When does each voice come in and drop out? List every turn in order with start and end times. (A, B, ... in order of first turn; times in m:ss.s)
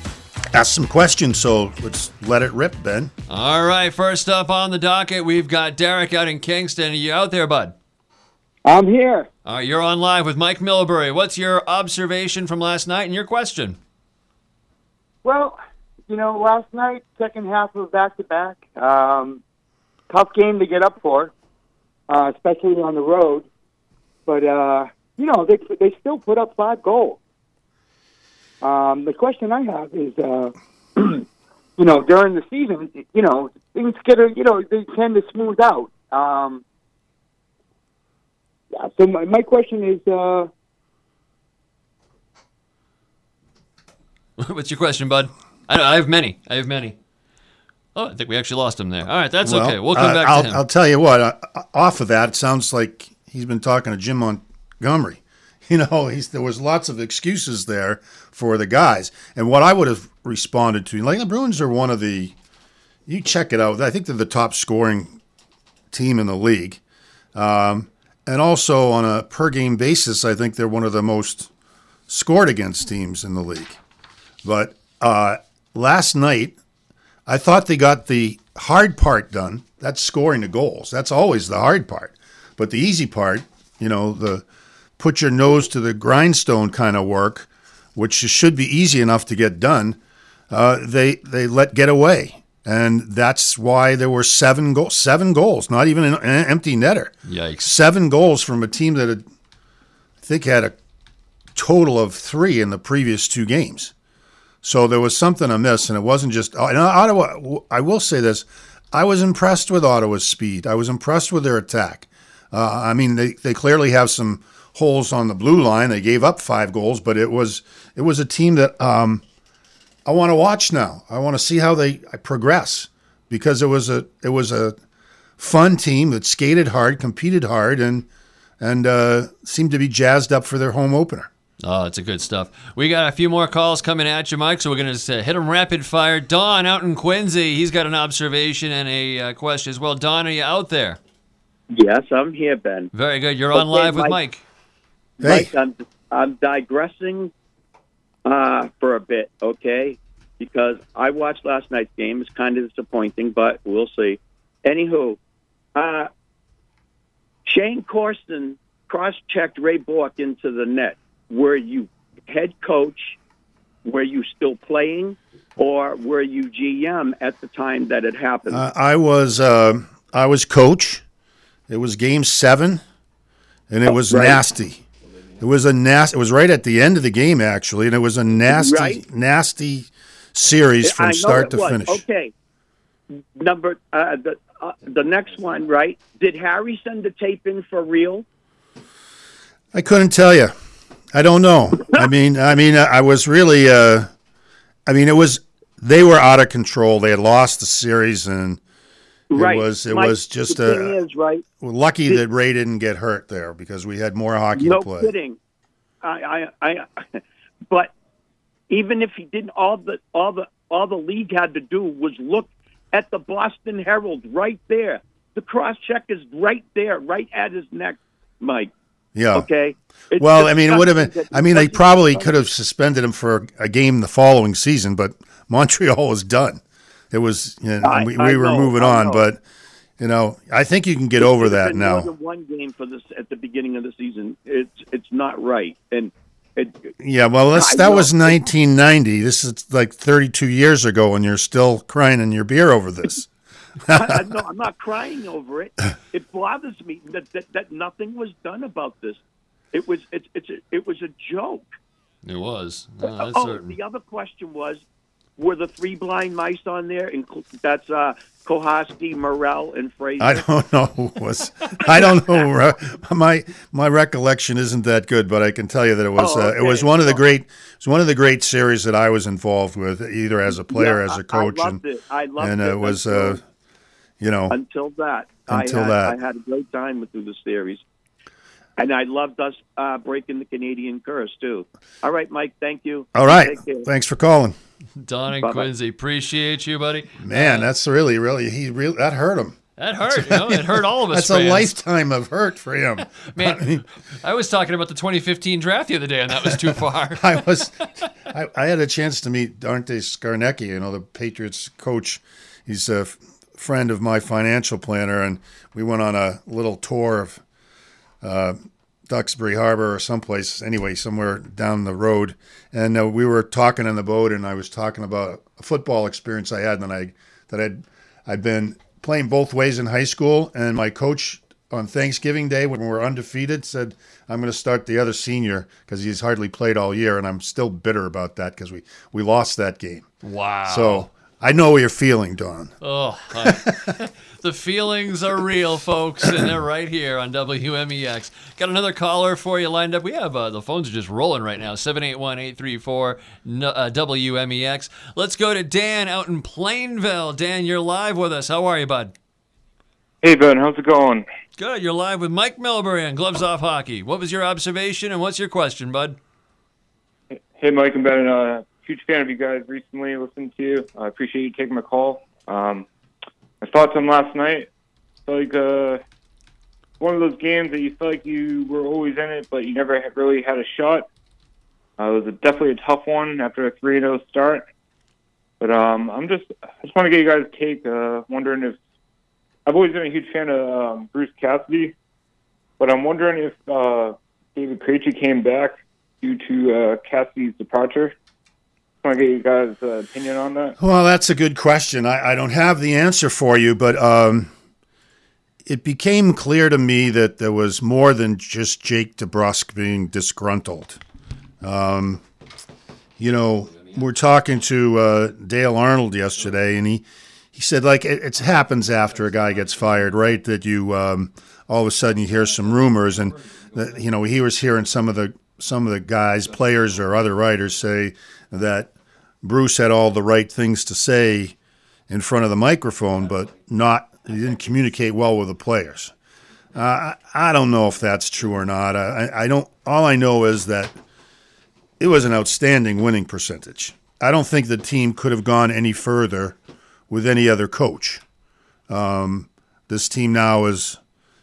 0:00.5-0:03.1 A
0:03.3-0:07.8 B
0:08.6-0:09.3 C
0:09.4-0:13.8 B
0:15.2-0:19.4 C
0:20.1-0:21.3 C
0:22.1-0:23.5 C
0:24.3-0:27.2 C
0:28.6-0:31.2 C
0:31.8-0:36.6 C
0:38.7-0:40.5 C
0:44.4-0:47.0 B
0:48.0-0:50.6 B
0:49.4-1:02.4 A
1:03.1-1:05.2 A
1:05.9-1:06.8 A
1:07.3-1:11.5 A
1:12.1-1:13.8 A
1:14.4-1:16.6 A
1:17.3-1:24.4 A
1:25.0-1:30.0 A
1:30.5-1:39.2 A
1:37.3-1:37.7 B
1:40.2-1:40.8 A
1:41.6-1:43.9 A
1:44.6-1:59.2 A
2:00.0-2:04.8 A
2:05.4-2:08.1 A
2:08.6-2:11.3 A
2:11.6-2:21.0 B
2:21.7-2:22.9 D
2:22.9-2:24.4 B
2:23.5-2:24.2 D
2:25.2-2:27.3 D
2:25.2-2:25.5 A
2:28.2-2:35.2 D
2:35.8-2:36.1 D
2:37.5-2:43.2 D
2:43.8-2:48.6 D
2:48.5-2:51.0 A
2:51.7-2:52.8 A
2:53.7-2:54.8 A
2:53.9-2:54.4 D
2:55.4-3:02.0 A
2:58.5-2:59.0 D
3:00.8-3:02.3 D
3:03.4-3:08.2 D
3:09.7-3:10.5 A
3:11.1-3:14.1 A
3:14.9-3:18.6 A
3:19.3-3:21.4 D
3:19.4-3:21.0 A
3:21.6-3:25.1 A
3:24.5-3:25.4 D
3:26.0-3:27.9 D
3:28.7-3:38.7 D
3:39.2-3:39.5 A
3:39.3-3:42.4 D
3:40.2-3:49.4 A
3:47.8-3:49.3 D
3:50.0-3:52.1 A
3:51.2-3:56.9 D
3:57.0-4:03.3 A
3:57.5-3:58.3 D
4:03.9-4:04.2 A
4:03.9-4:09.2 D
4:09.7-4:11.7 D
4:12.2-4:13.8 B
4:13.0-4:14.8 D
4:15.4-4:20.4 D
4:20.2-4:31.8 A
4:26.2-4:27.2 D
4:30.7-4:33.4 D
4:32.4-4:33.4 A
4:34.2-4:34.6 A
4:34.5-4:37.8 D
4:35.5-4:36.2 A
4:38.8-4:43.9 D
4:43.1-4:44.6 A
4:45.0-4:47.7 B
4:45.4-4:45.7 D
4:47.2-4:53.8 A
4:49.8-4:51.7 B
4:53.3-4:57.4 B
4:56.4-5:07.4 A
5:08.2-5:30.1 A
5:30.2-5:31.1 B
5:30.7-5:32.7 A
5:32.8-5:49.1 B
5:33.4-5:33.9 A
5:50.2-5:51.2 E
5:51.6-5:56.2 B
5:57.3-6:02.9 E
6:03.6-6:04.7 E
6:05.3-6:06.0 E
6:07.0-6:11.1 E
6:12.0-6:14.6 E
6:15.6-6:18.8 E
6:19.7-6:22.0 E
6:22.8-6:28.2 E
6:29.0-6:30.8 E
6:30.8-6:34.5 A
6:35.6-6:41.0 A
6:41.6-6:42.2 A
6:43.2-6:58.9 A
6:59.4-7:01.6 A
7:02.1-7:06.1 A
7:06.7-7:11.0 A
7:12.0-7:16.6 A
7:17.1-7:18.2 A
7:18.9-7:21.0 A